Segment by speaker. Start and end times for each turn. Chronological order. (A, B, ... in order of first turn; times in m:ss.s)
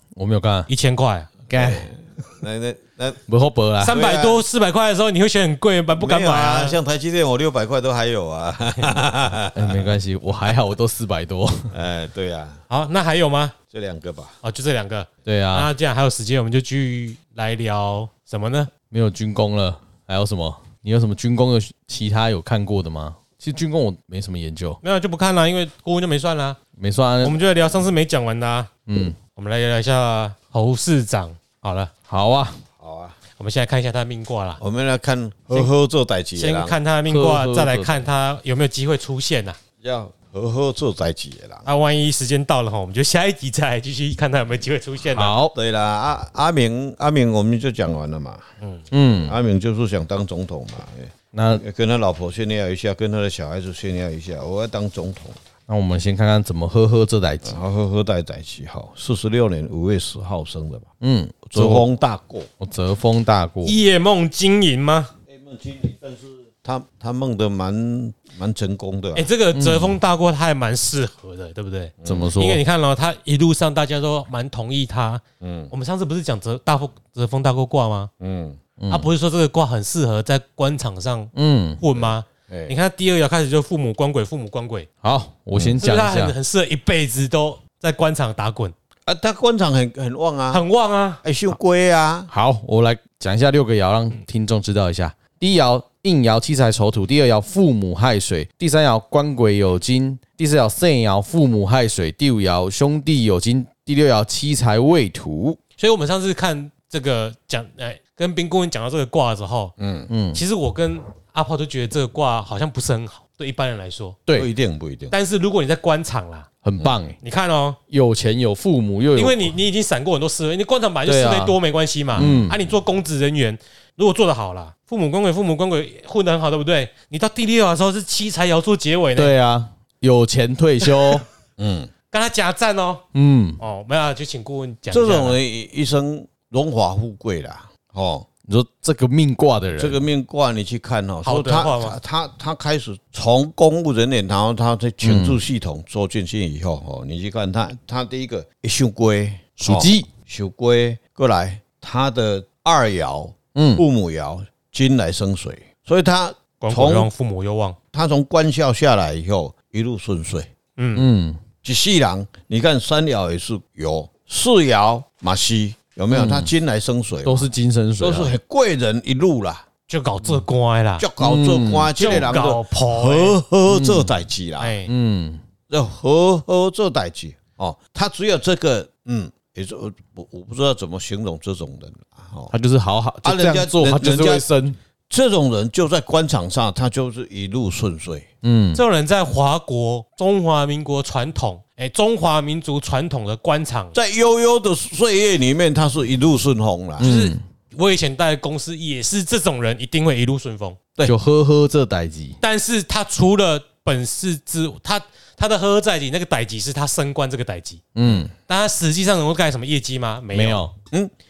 0:00.2-0:00.7 A
0:00.7-0:01.3 B
0:01.5-0:01.9 A
0:01.5-0:03.2 C
0:03.3-0:04.0 A
0:03.8-0:06.8 B
0:03.8-0:04.4 C
0:06.0-0:10.0 C
0:09.5-0:11.7 A
0:11.7-0:12.6 C
0:12.7-0:13.6 B
0:13.7-0:14.4 C
0:14.4-0:18.7 B
0:15.2-0:15.7 A
0:18.9-0:24.8 A
0:24.8-0:26.6 B
0:26.8-0:27.4 A
0:27.2-0:28.7 B
0:28.9-0:29.2 A
0:29.3-0:31.9 B
0:32.1-0:32.6 A
0:32.8-0:33.2 C
0:33.4-0:34.6 B
0:34.6-0:36.8 C
0:36.4-0:39.6 B
0:37.1-0:38.0 A
0:39.8-0:41.6 C
0:41.6-0:45.3 B
0:45.1-0:45.5 A
0:45.5-0:48.5 C
0:48.9-0:49.4 A
0:49.2-0:55.4 C
0:51.3-0:51.6 A
0:55.7-0:57.6 A
0:57.4-1:00.9 C
1:01.0-1:01.9 A
1:01.5-1:02.5 C
1:02.6-1:03.8 A
1:03.6-1:05.1 B
1:05.3-1:09.3 C
1:09.1-1:18.1 B
1:09.5-1:10.0 A
1:12.0-1:12.3 C
1:12.0-1:12.6 A
1:15.4-1:15.7 C
1:18.2-1:18.6 C
1:18.8-1:19.1 A
1:18.9-1:24.9 B
1:21.3-1:21.8 A
1:21.9-1:22.7 C
1:25.0-1:26.3 A
1:25.8-1:28.7 B
1:29.0-1:30.6 C
1:30.5-1:31.2 B
1:31.2-1:32.3 C
1:32.3-1:45.6 A
1:45.8-1:49.7 B
1:49.8-1:50.1 C
1:50.1-1:50.4 A
1:50.3-1:54.2 B
1:54.3-1:55.1 C
1:55.1-1:56.5 B
1:56.6-1:57.2 A
1:57.2-1:57.8 B
1:57.9-1:59.5 A
1:59.1-2:09.3 B
2:01.0-2:01.6 A
2:02.1-2:02.6 A
2:02.2-2:02.5 C
2:09.2-2:11.2 A
2:11.6-2:11.9 C
2:12.1-2:13.0 B
2:13.1-2:13.6 A
2:13.6-2:15.4 B
2:14.9-2:18.3 C
2:18.5-2:20.0 A
2:19.8-2:37.1 C
2:21.2-2:22.0 B
2:25.0-2:25.4 A
2:29.6-2:30.1 A
2:33.5-2:33.8 A
2:36.6-2:37.8 B
2:37.9-2:40.5 C
2:40.8-2:41.0 B
2:40.9-2:41.4 A
2:41.6-2:47.5 C
2:46.1-2:46.5 A
2:47.2-2:48.3 A
2:48.0-2:49.6 C
2:49.9-2:51.1 B
2:51.0-2:54.8 C
2:51.2-2:52.0 A
2:51.9-2:53.4 B
2:53.7-2:54.1 A
2:54.6-2:54.9 B
2:54.9-2:55.4 A
2:55.7-3:02.5 C
3:02.5-3:04.8 A
3:03.2-3:04.4 C
3:05.1-3:08.3 C
3:08.4-3:08.8 A
3:08.7-3:14.0 B
3:13.9-3:17.1 C
3:17.0-3:17.4 A
3:17.0-3:20.8 B
3:21.0-3:22.4 A
3:22.4-3:27.8 B
3:27.9-3:28.3 A
3:28.0-3:28.3 C
3:28.5-3:30.7 B
3:30.3-3:30.7 A